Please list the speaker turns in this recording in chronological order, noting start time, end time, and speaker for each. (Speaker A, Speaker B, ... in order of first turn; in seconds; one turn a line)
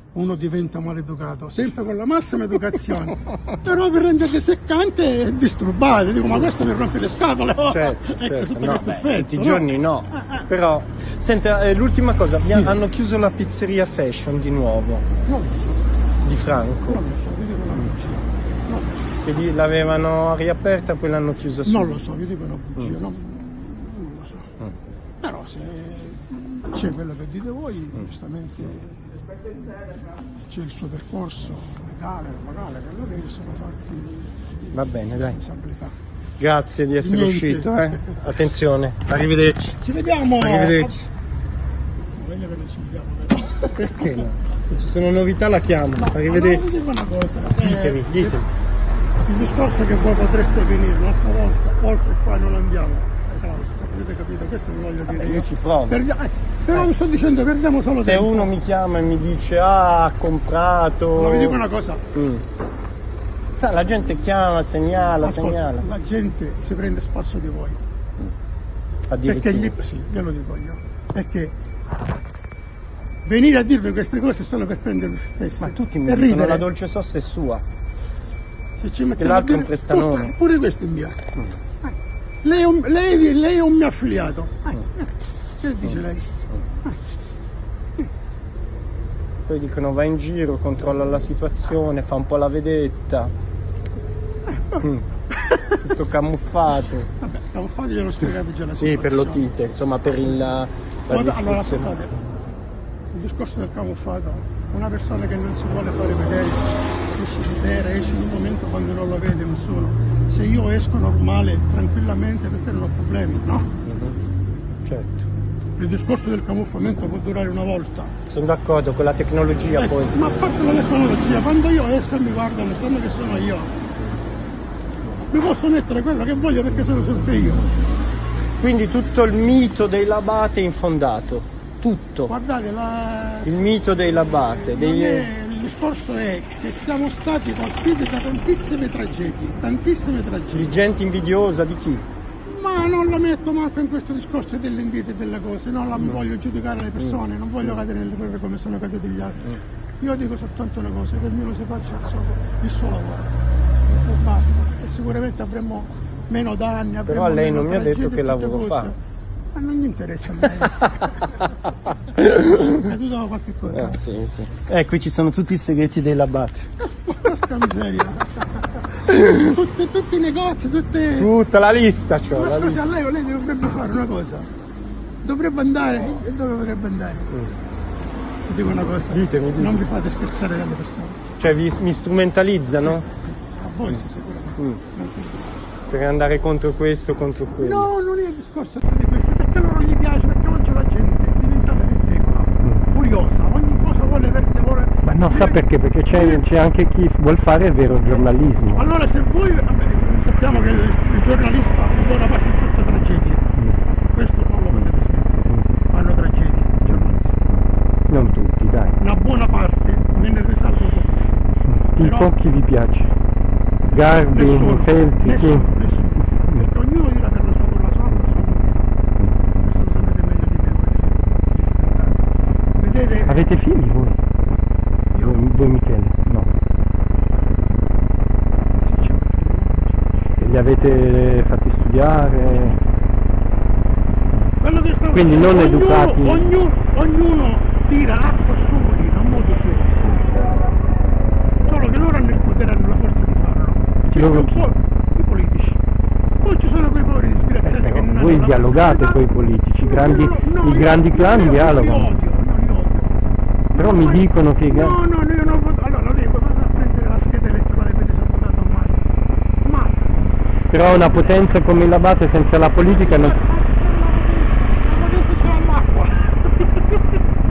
Speaker A: 0.1-10.5
Speaker B: 7.7-15.1
Speaker A: 15.3-15.9
Speaker B: 16.2-17.0
Speaker A: 16.8-19.1
Speaker B: 19.2-22.0
Speaker A: 21.6-24.5
Speaker A: 25.2-29.0
Speaker A: 30.5-36.0
Speaker B: 34.7-35.4
Speaker B: 36.4-39.8
Speaker A: 37.0-38.2
Speaker A: 39.8-41.0
Speaker B: 40.4-41.0
Speaker A: 42.2-44.0
Speaker B: 43.8-46.7
Speaker A: 46.0-48.4
Speaker B: 47.6-48.5
Speaker A: 49.3-58.5
Speaker B: 55.1-56.0
Speaker B: 58.0-61.6
Speaker A: 61.1-62.0
Speaker B: 62.1-62.5
Speaker B: 63.5-65.9
Speaker A: 65.2-67.8
Speaker B: 69.1-69.8
Speaker A: 69.3-71.5
Speaker A: 73.2-76.7
Speaker B: 75.6-77.7
Speaker A: 78.8-81.2
Speaker B: 79.2-80.3
Speaker A: 82.4-85.1
Speaker A: 85.6-86.9
Speaker B: 89.5-93.3
Speaker A: 95.5-95.8
Speaker B: 95.8-97.1
Speaker A: 97.2-99.5
Speaker B: 98.8-102.0
Speaker A: 101.1-102.1
Speaker A: 103.1-113.7
Speaker B: 113.8-114.2
Speaker B: 114.8-115.3
Speaker A: 115.8-118.2
Speaker B: 118.3-120.2
Speaker A: 119.8-123.7
Speaker A: 125.3-127.8
Speaker B: 128.6-132.3
Speaker A: 132.3-133.8
Speaker B: 133.4-135.3
Speaker A: 134.5-140.8
Speaker B: 140.5-142.1
Speaker A: 142.5-153.3
Speaker A: 153.9-159.0
Speaker B: 157.1-158.9
Speaker A: 159.6-161.1
Speaker B: 162.2-162.8
Speaker A: 162.5-164.0
Speaker B: 163.7-166.7
Speaker A: 167.1-171.3
Speaker B: 171.2-172.9
Speaker A: 172.3-174.5
Speaker A: 175.2-177.4
Speaker A: 178.5-181.2
Speaker B: 179.1-179.8
Speaker B: 181.4-183.1
Speaker A: 182.7-185.5
Speaker B: 185.9-187.9
Speaker A: 187.6-196.5
Speaker C: 195.0-198.9
Speaker A: 198.8-203.4
Speaker A: 204.1-207.6
Speaker C: 208.1-208.9
Speaker A: 209.0-212.3
Speaker C: 211.8-213.1
Speaker A: 213.9-218.9
Speaker C: 213.9-215.7
Speaker A: 219.5-222.2
Speaker A: 222.8-223.4
Speaker C: 223.3-224.2
Speaker C: 225.2-226.5
Speaker A: 228.8-230.1
Speaker C: 230.4-232.8
Speaker A: 234.6-240.5
Speaker C: 235.1-236.5
Speaker A: 241.7-245.8
Speaker C: 244.2-244.7
Speaker A: 246.4-249.2
Speaker C: 247.6-252.1
Speaker A: 249.8-253.2
Speaker A: 253.7-259.0
Speaker C: 253.8-255.0
Speaker A: 259.6-260.1
Speaker C: 260.7-263.4
Speaker A: 262.9-267.0